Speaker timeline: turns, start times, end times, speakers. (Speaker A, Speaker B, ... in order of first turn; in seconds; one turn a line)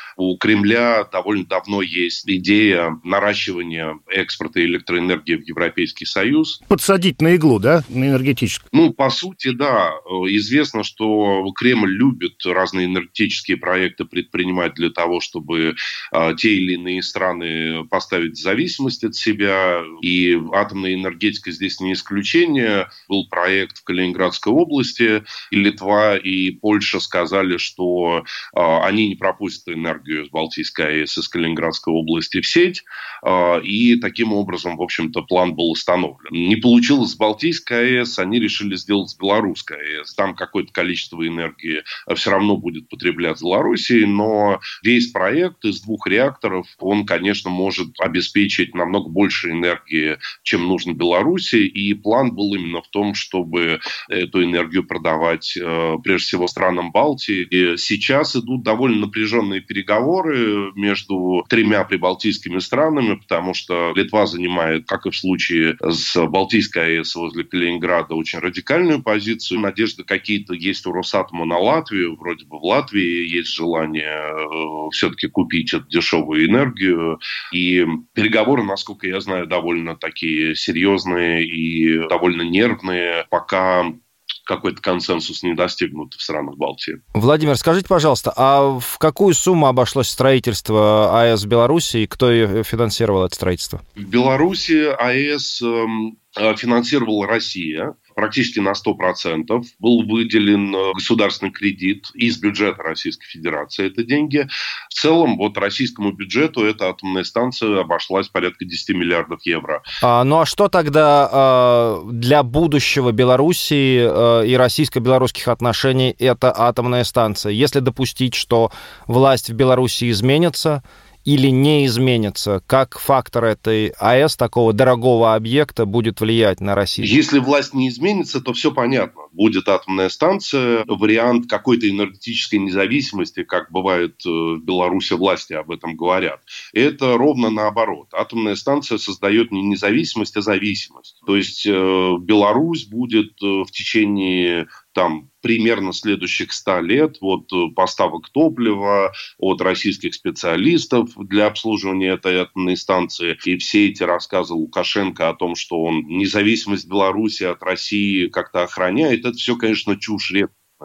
Speaker A: 0.2-6.6
Speaker B: 6.7-8.6
Speaker A: 8.7-87.0
Speaker C: 87.1-93.8
Speaker A: 94.0-109.8
Speaker C: 110.0-127.1
Speaker A: 127.0-160.5